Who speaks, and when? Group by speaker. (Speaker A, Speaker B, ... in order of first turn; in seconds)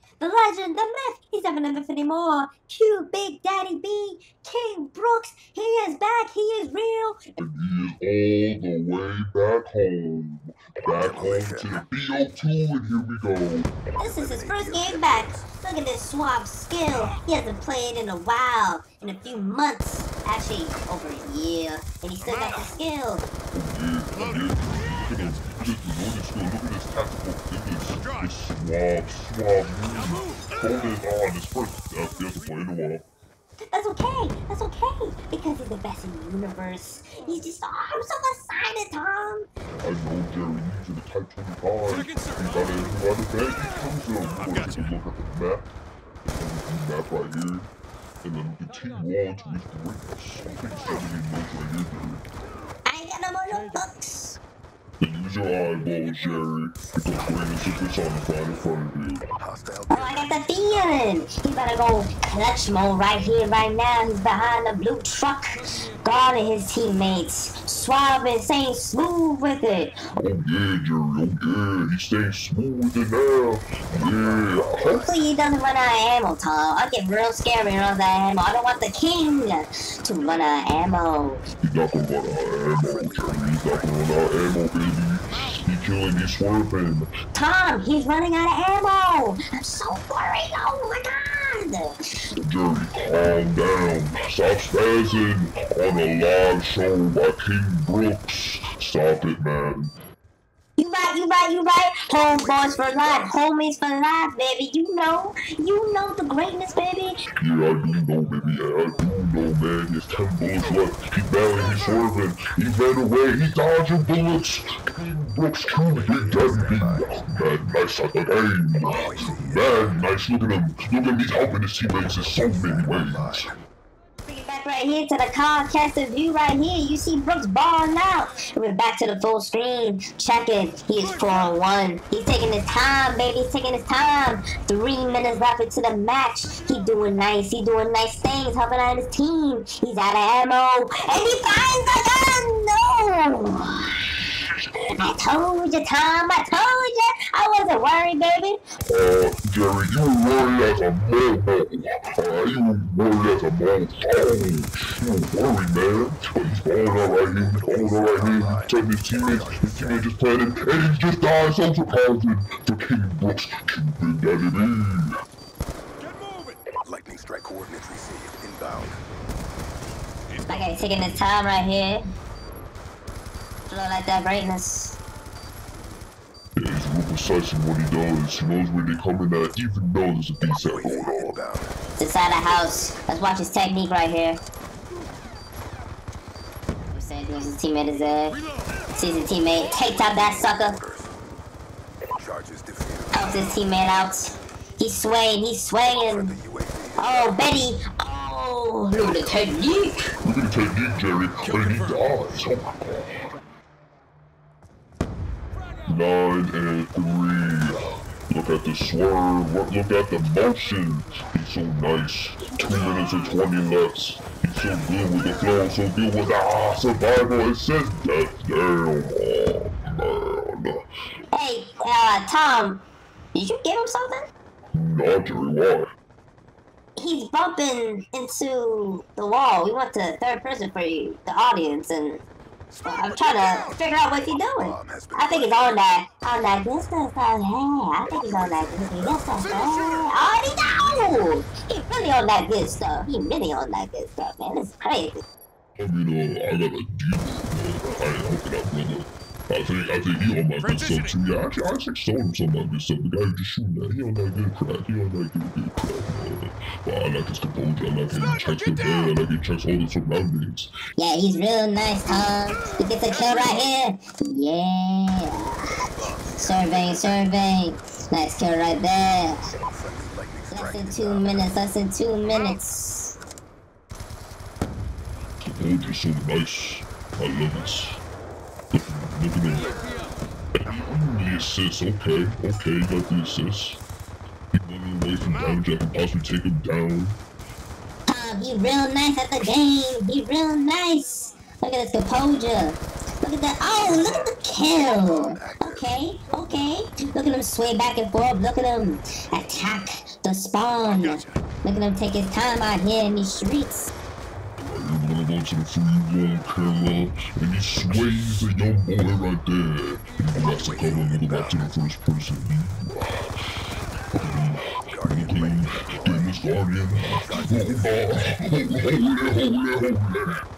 Speaker A: 0.2-7.4, 14.0-23.2, 33.6-39.5, 52.9-54.4, 59.9-70.0, 74.9-81.4, 87.3-92.0, 100.8-107.2, 124.2-148.6, 170.4-172.0, 173.7-175.0, 182.0-184.4, 186.9-188.4, 188.9-190.8, 193.1-196.4, 197.0-200.1, 221.3-222.8, 223.3-224.3, 227.0-232.2, 232.8-245.2, 261.0-265.7, 266.4-269.4, 270.5-273.1, 288.1-303.9
Speaker B: 7.4-13.7, 23.5-33.0, 39.8-45.7, 46.3-47.7, 48.2-52.2, 55.0-59.2, 70.2-75.1, 81.6-87.1, 92.4-99.9, 107.3-123.5, 148.8-165.1, 176.6-181.4, 200.2-203.3, 205.8-220.8, 224.7-225.9, 245.8-260.8, 275.4-278.0, 278.7-279.9, 280.6-283.8, 284.5-287.2, 293.9-294.4, 304.6-313.3, 314.1-320.3
Speaker C: 11.0-11.8, 14.2-15.3, 59.6-59.9, 83.1-83.9, 102.5-103.0, 116.3-117.1, 119.0-119.7, 122.9-123.3, 157.2-158.7, 159.5-159.8, 166.8-169.0, 180.7-181.7, 190.8-191.0, 192.2-193.1, 196.4-196.9, 234.7-235.6, 266.0-267.0, 269.7-271.2, 295.1-295.7, 310.9-311.4, 315.0-315.8, 317.3-317.9